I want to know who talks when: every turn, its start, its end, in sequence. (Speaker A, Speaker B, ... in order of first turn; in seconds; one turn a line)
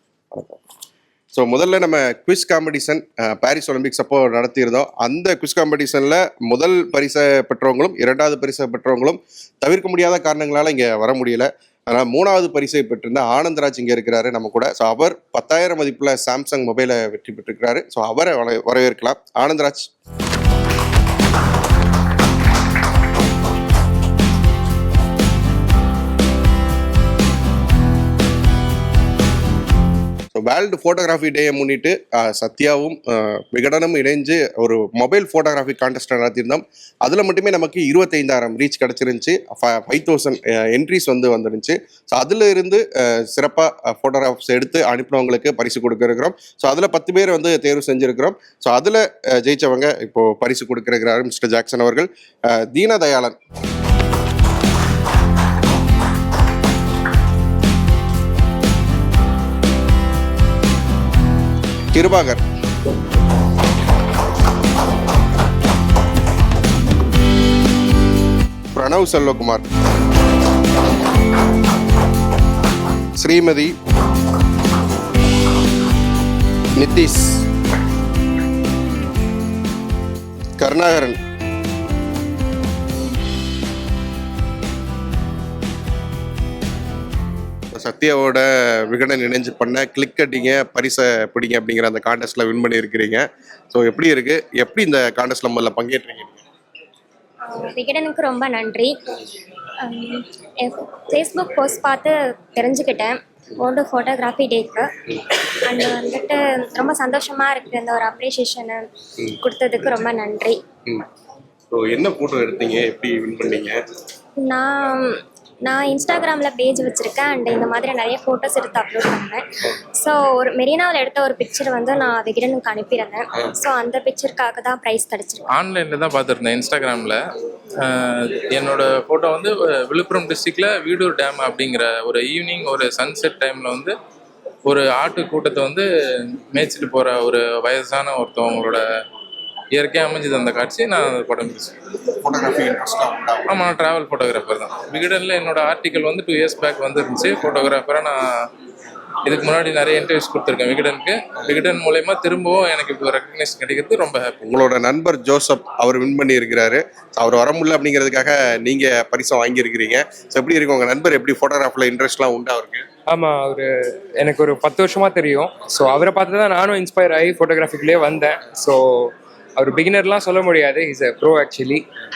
Speaker A: 0.3-0.6
Speaker A: 1.3-19.9
Speaker A: 30.3-53.4
Speaker A: 61.9-62.4
Speaker A: 68.7-69.6
Speaker A: 73.2-73.7
Speaker A: 76.8-77.4
Speaker A: 80.6-81.2
Speaker A: 87.7-96.4
Speaker B: 97.5-98.9
Speaker B: 99.8-104.9
Speaker B: 105.6-110.6
Speaker A: 111.7-113.8
Speaker B: 114.4-119.4
Speaker B: 120.0-125.5
Speaker C: 125.5-127.2
Speaker C: 127.8-133.9
Speaker C: 134.7-138.8
Speaker C: 139.7-141.7
Speaker A: 142.2-143.7
Speaker C: 143.5-148.2
Speaker C: 149.2-154.4
Speaker A: 154.4-162.8
Speaker D: 163.1-171.8